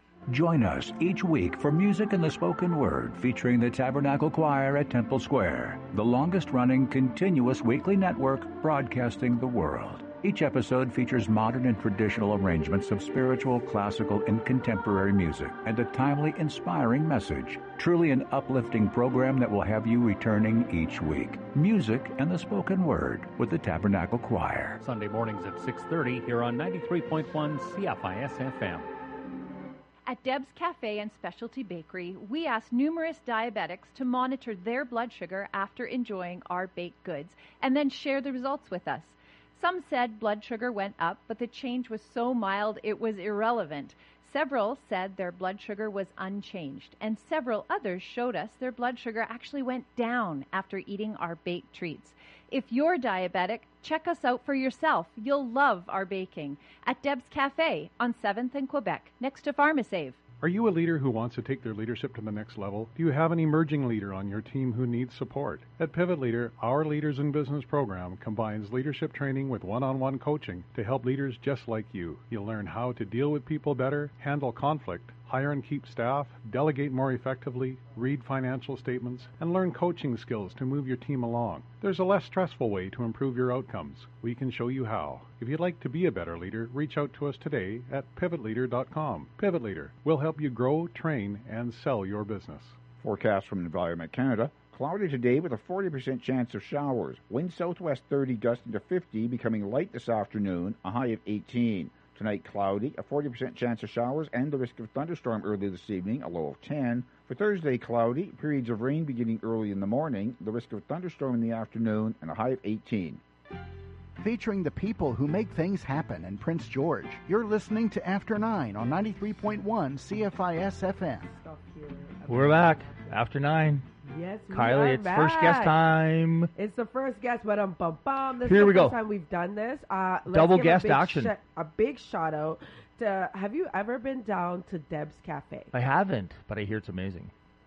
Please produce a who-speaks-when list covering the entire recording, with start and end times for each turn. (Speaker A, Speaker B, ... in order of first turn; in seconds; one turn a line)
Speaker A: 0.3-24.8
Speaker B: 24.8-28.9
Speaker C: 30.1-60.2
Speaker D: 60.4-92.8
Speaker E: 93.0-113.2
Speaker F: 114.2-121.3
Speaker G: 121.3-123.2
Speaker H: 122.3-123.8
Speaker G: 124.0-125.8
Speaker H: 124.5-126.5
Speaker G: 126.5-135.7
Speaker H: 128.4-129.0
Speaker H: 130.3-131.3
Speaker H: 135.7-137.3